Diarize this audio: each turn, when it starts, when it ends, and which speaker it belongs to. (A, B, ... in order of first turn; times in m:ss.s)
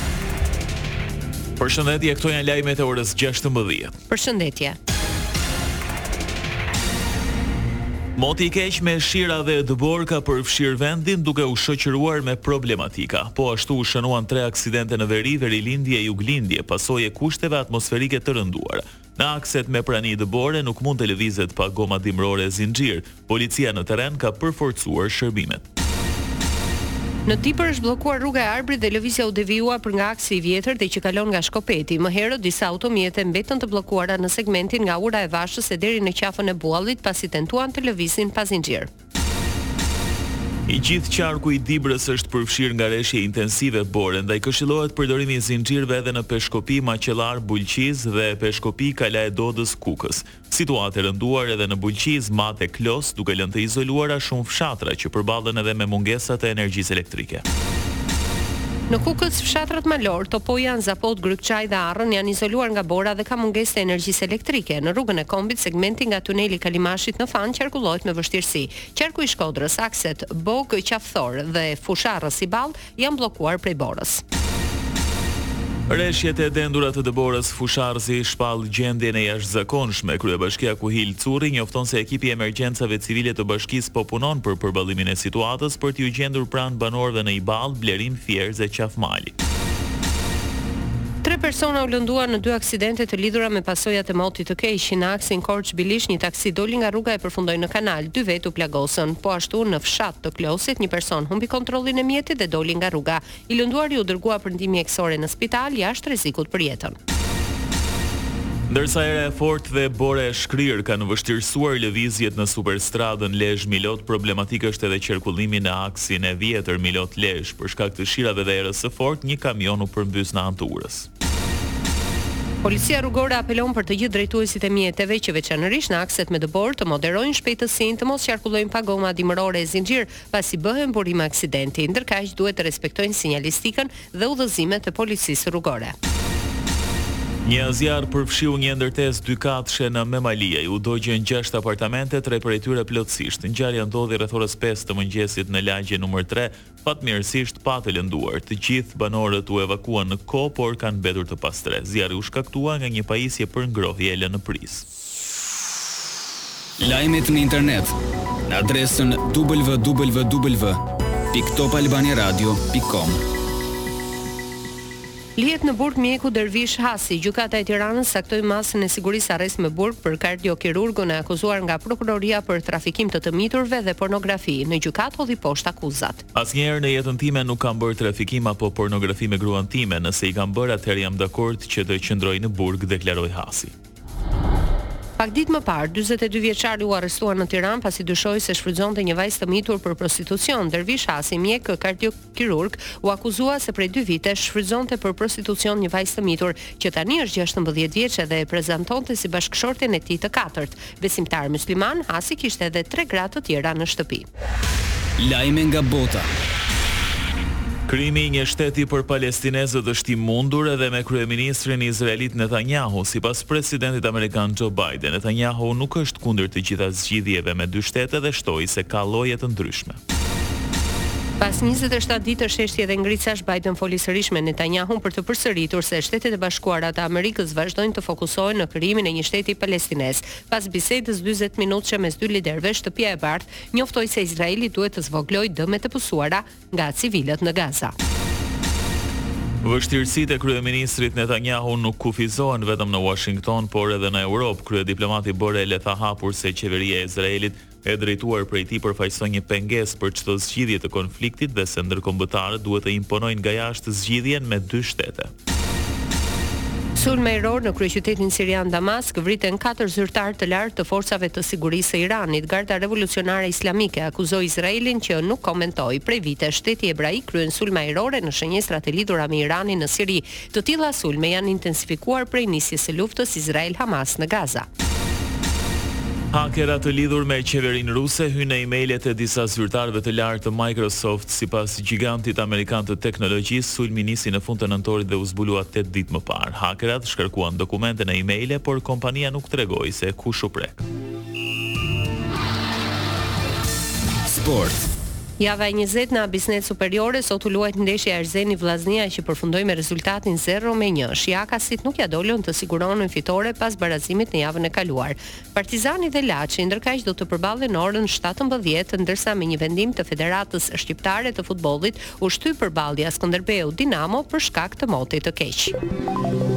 0:01.6-0:03.9 A
0:04.1-0:04.8 B
0:08.2-0:25.6 A
0:27.2-0:38.9 B
0:40.7-0:57.4 A
0:58.9-1:14.2 B
1:15.9-1:29.3 A
1:31.2-1:46.9 B
1:48.7-2:01.1 A
2:02.6-2:15.9 B
2:17.4-2:34.8 A
2:36.8-2:37.9 C
2:38.5-2:43.2 C
2:45.4-2:56.2 B
2:56.3-3:03.7 A
3:05.2-3:24.2 B
3:25.2-3:26.3 C
3:27.9-3:40.0 A
3:41.4-3:57.9 B
3:59.6-4:15.3 A
4:17.0-4:34.7 B
4:36.3-4:50.8 A
4:54.2-4:54.8 C
4:55.4-5:15.8 B